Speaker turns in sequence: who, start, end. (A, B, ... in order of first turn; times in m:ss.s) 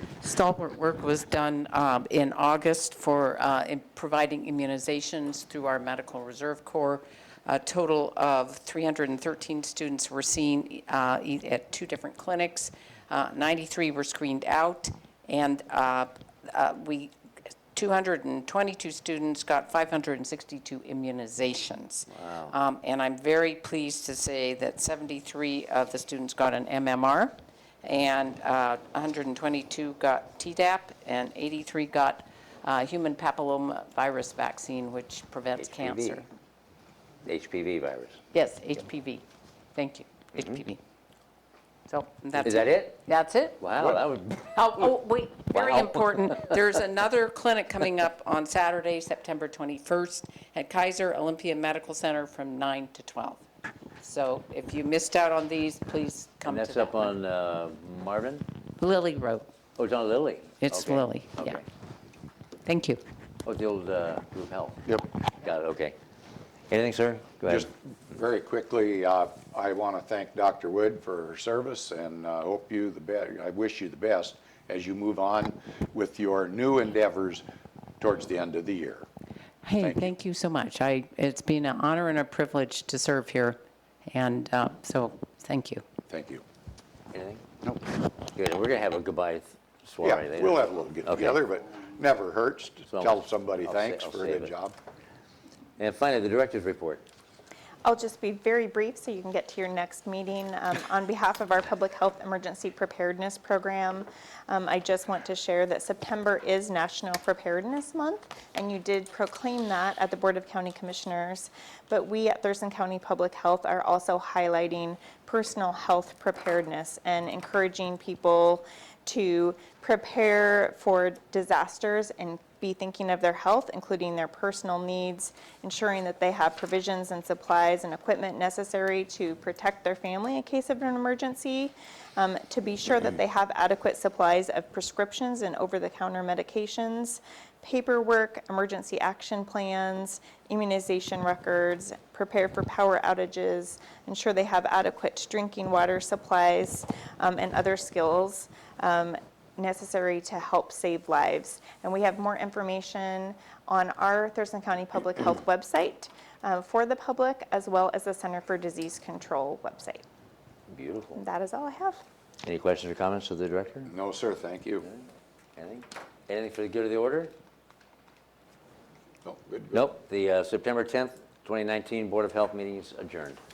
0:00.2-0:17.1 A
0:17.7-0:36.3 A
0:22.1-0:22.5 B
0:35.6-0:36.2 B
0:37.2-0:38.2 B
0:38.3-0:40.8 A
0:41.9-0:43.6 A
0:42.4-0:43.0 B
0:43.6-0:45.0 B
0:44.5-0:53.4 A
0:45.5-0:46.5 B
0:54.0-0:57.2 A
0:56.5-0:58.4 B
0:58.8-0:59.5 A
0:59.8-1:01.6 B
1:00.6-1:01.6 A
1:02.6-1:03.0 A
1:03.4-1:04.8 B
1:05.4-1:06.0 B
1:06.7-1:07.7 B
1:07.5-1:17.4 C
1:18.0-1:19.1 C
1:19.6-1:25.8 A
1:19.8-1:20.1 C
1:26.1-1:26.4 C
1:27.1-1:27.4 B
1:28.3-1:31.4 B
1:30.0-1:34.8 C
1:32.9-1:34.5 B
1:35.8-1:37.0 B
1:37.8-2:40.0 D
2:40.7-2:41.2 B
2:41.2-2:42.0 D
2:42.4-2:43.9 B
2:43.9-2:44.9 C
2:45.6-2:47.3 B
2:49.2-2:49.8 C
2:49.7-2:53.4 B